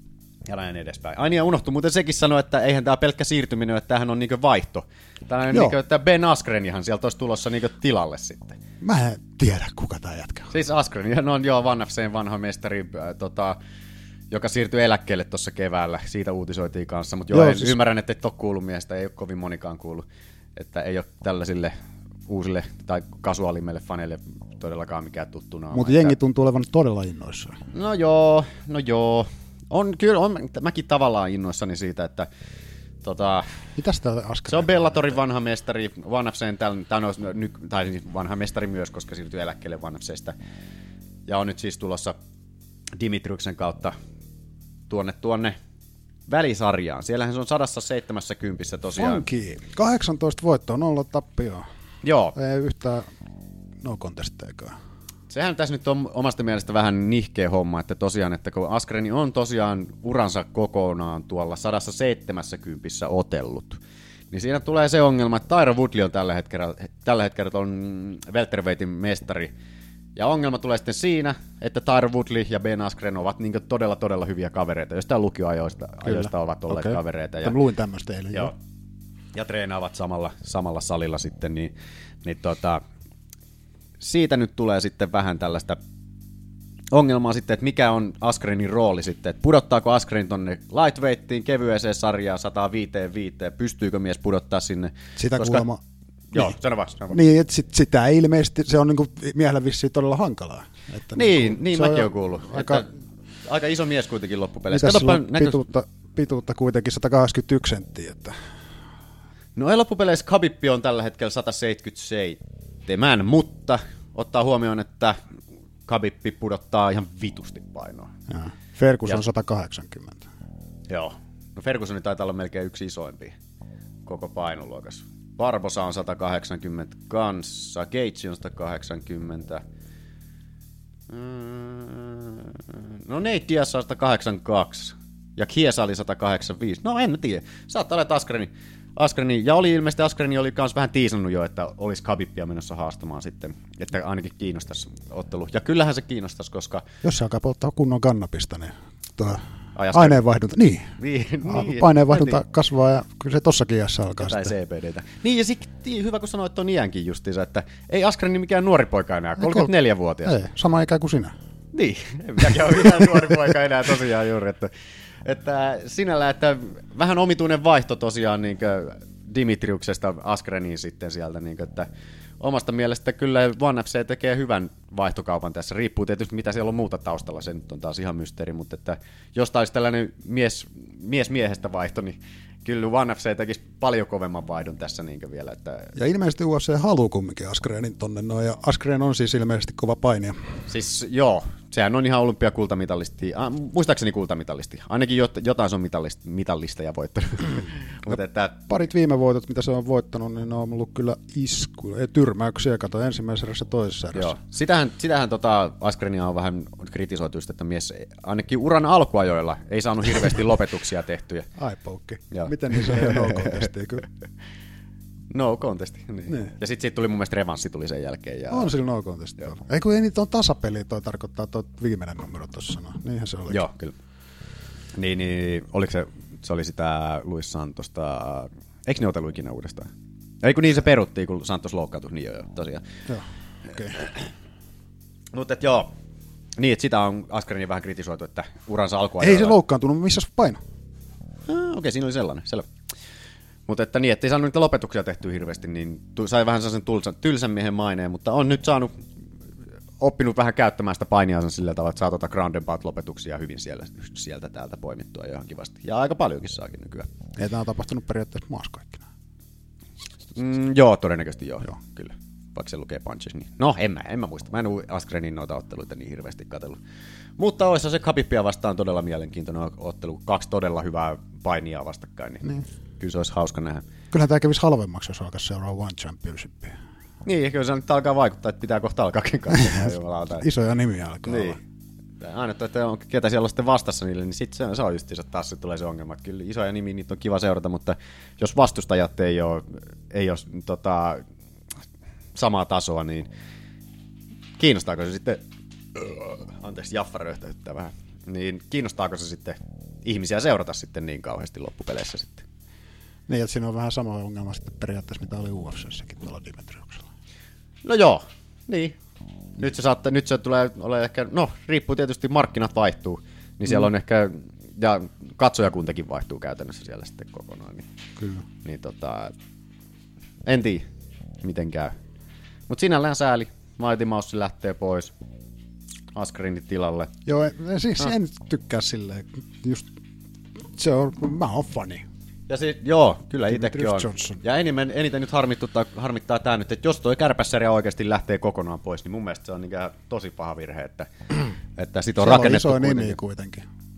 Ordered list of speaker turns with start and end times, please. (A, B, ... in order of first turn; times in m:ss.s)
0:00.4-0:08.6 A
0:08.8-0:10.5 B
0:10.5-0:13.6 A
0:14.3-0:21.8 A
0:17.3-0:17.8 B
0:22.3-0:26.1 A
0:25.7-0:27.6 B
0:27.7-0:32.3 A
0:33.0-0:33.6 A
0:33.8-0:35.0 B
0:34.5-0:40.4 A
0:41.2-0:42.2 A
0:42.9-0:44.0 A
0:44.9-0:45.6 A
0:46.3-0:49.2 A
0:49.0-0:51.6 B
0:52.0-0:52.3 A
0:52.3-0:53.1 B
0:53.8-0:54.8 B
0:55.3-1:09.5 A
1:10.2-1:17.6 A
1:16.0-1:18.5 B
1:19.3-1:22.8 A
1:24.0-1:25.8 A
1:26.9-1:35.6 A
1:35.2-1:35.8 B
1:36.3-1:37.2 A
1:37.1-1:42.9 B
1:41.1-1:42.9 A
1:43.4-1:45.6 A
1:44.7-1:48.4 B
1:49.5-1:55.2 A
1:55.8-1:58.1 A
1:58.3-2:00.2 B
2:00.9-2:03.4 A
2:04.0-2:09.6 A
2:11.1-2:26.8 A
2:27.0-2:34.5 B
2:29.8-2:30.2 A
2:31.0-2:32.4 A
2:34.2-2:40.4 A
2:39.4-2:39.7 B
2:40.2-2:41.3 B
2:41.7-2:44.7 A
2:45.2-2:51.9 A
2:52.4-3:05.9 A
3:06.0-3:10.4 B
3:10.7-3:18.7 A
3:18.1-3:24.4 B
3:24.1-3:31.5 A
3:31.6-3:34.0 B
3:32.3-3:33.5 A
3:35.3-3:38.8 A
3:38.5-3:43.6 B
3:43.5-3:44.0 A
3:45.0-3:49.9 A
3:50.4-3:52.8 A
3:53.1-3:54.0 B
3:55.3-3:55.9 A
3:56.6-3:59.6 A
3:59.2-4:00.6 B
4:01.5-4:02.7 A
4:03.7-4:09.0 A
4:10.0-4:17.1 A
4:17.4-4:19.0 B
4:20.3-4:26.8 A
4:27.4-4:32.5 A
4:33.0-4:33.8 A
4:34.1-4:36.8 B
4:37.2-4:40.5 A
4:40.4-4:41.6 B
4:41.2-4:41.6 A
4:42.2-4:51.2 A
4:52.3-4:53.3 A
4:54.6-4:55.4 A
4:55.9-5:02.4 A
5:03.3-5:07.1 B
5:07.8-5:09.0 A
5:09.6-5:17.9 A
5:18.2-5:18.4 B
5:18.6-5:19.3 A
5:20.4-5:20.9 A
5:21.4-5:22.0 A
5:22.7-5:25.1 A
5:26.1-5:27.1 A
5:27.2-5:29.9 B
5:30.8-5:32.0 B
5:32.5-5:41.1 A
5:33.5-5:34.4 B
5:41.8-5:43.2 A
5:42.2-5:43.6 B